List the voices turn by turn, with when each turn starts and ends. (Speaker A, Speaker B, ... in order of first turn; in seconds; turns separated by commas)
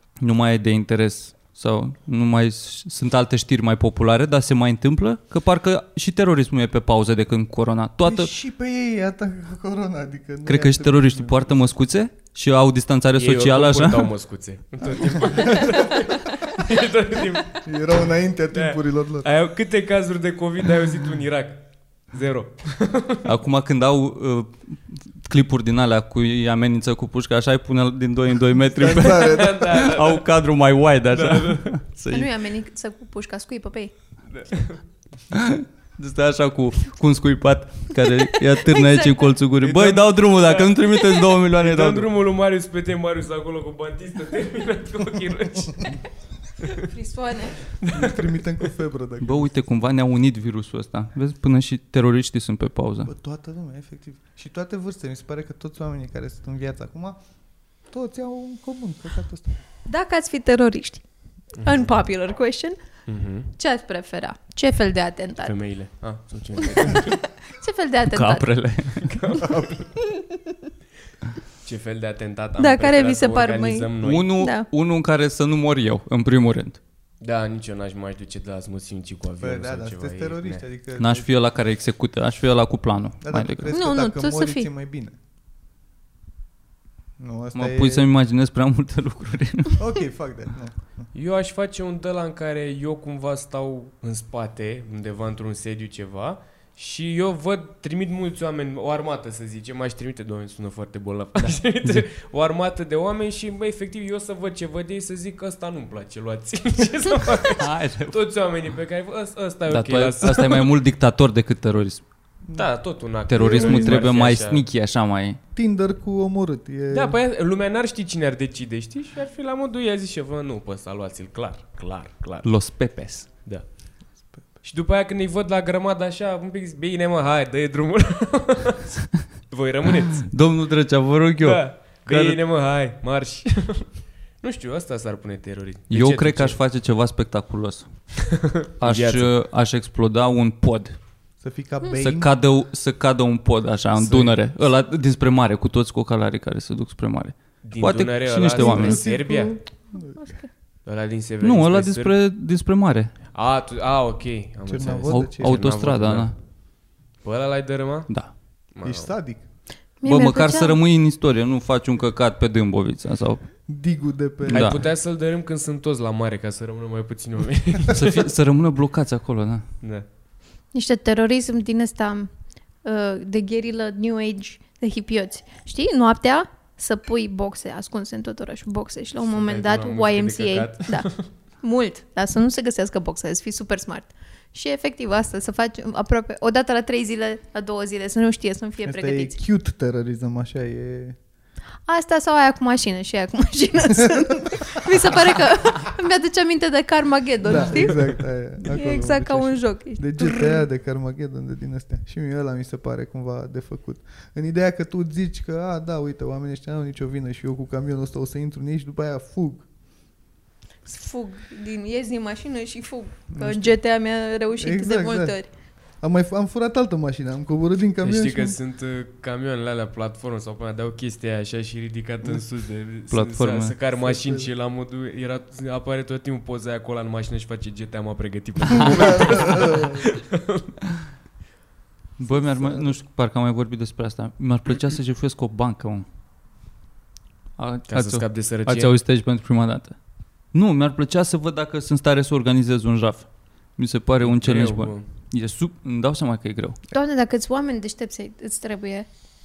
Speaker A: 0.2-8.3, Speaker B: 8.0-11.4, Speaker A: 10.4-14.1, Speaker C: 13.2-17.6, Speaker B: 14.9-15.9, Speaker B: 17.6-19.2, Speaker C: 18.5-23.2, Speaker A: 23.2-32.3, Speaker B: 28.6-29.7, Speaker C: 29.0-30.2, Speaker C: 31.1-31.7, Speaker D: 32.1-33.9, Speaker C: 34.3-34.8, Speaker A: 35.3-42.1, Speaker D: 38.7-39.1, Speaker C: 39.6-40.8, Speaker C: 41.6-46.0, Speaker D: 46.8-47.6, Speaker C: 47.8-48.3, Speaker B: 47.9-49.5, Speaker A: 49.2-53.1, Speaker B: 53.0-57.2, Speaker B: 57.9-59.6, Speaker D: 59.9-61.0, Speaker D: 61.6-62.8, Speaker C: 63.1-63.5, Speaker D: 63.5-65.5, Speaker C: 65.4-67.2, Speaker D: 67.4-68.5, Speaker A: 68.1-69.2, Speaker C: 69.0-69.9, Speaker B: 69.4-69.7, Speaker C: 71.6-74.3, Speaker D: 72.6-74.7, Speaker A: 74.0-76.8, Speaker C: 77.2-80.6, Speaker B: 79.4-81.2, Speaker A: 81.0-83.7, Speaker B: 83.2-85.1, Speaker D: 83.7-84.7, Speaker B: 87.2-88.0, Speaker A: 87.5-89.8, Speaker B: 89.8-91.1, Speaker C: 91.1-110.7, Speaker A: 107.5-108.2, Speaker A: 109.7-112.0, Speaker C: 112.5-114.6, Speaker A: 113.3-115.4, Speaker B: 113.4-114.1, Speaker B: 115.5-117.2, Speaker C: 116.9-122.5, Speaker A: 122.4-123.3, Speaker C: 124.6-128.9, Speaker C: 129.5-130.3, Speaker A: 130.2-132.4, Speaker C: 131.4-133.9, Speaker C: 134.4-136.6, Speaker A: 135.9-137.9, Speaker C: 138.4-139.3, Speaker A: 138.8-141.0, Speaker B: 141.4-142.3, Speaker A: 142.0-149.0, Speaker C: 144.0-144.3, Speaker C: 147.6-149.5, Speaker B: 148.5-150.3, Speaker D: 150.2-150.5, Speaker C: 150.8-152.1, Speaker A: 151.4-153.1, Speaker C: 153.3-156.3, Speaker B: 154.7-155.7, Speaker A: 155.1-156.3, Speaker C: 157.2-158.1, Speaker C: 158.7-159.1, Speaker B: 158.8-159.4, Speaker D: 160.0-160.8, Speaker A: 160.0-163.5, Speaker B: 163.7-164.9, Speaker A: 164.5-164.8, Speaker C: 164.5-168.2, Speaker A: 167.9-169.6, Speaker D: 170.7-172.3, Speaker D: 172.8-189.4, Speaker C: 179.3-181.3, Speaker B: 188.8-191.2, Speaker D: 191.9-200.6, Speaker B: 194.0-194.6, Speaker B: 197.4-209.7, Speaker D: 210.8-215.5, Speaker B: 213.3-213.8, Speaker B: 214.6-215.4, Speaker B: 216.0-218.6, Speaker C: 218.0-230.7, Speaker A: 223.1-223.7, Speaker B: 224.0-224.5, Speaker B: 228.8-230.0, Speaker A: 232.2-236.1, Speaker B: 232.4-232.9, Speaker A: 237.6-239.9, Speaker C: 237.9-238.9, Speaker A: 240.5-246.8, Speaker C: 244.2-245.0, Speaker D: 246.9-249.1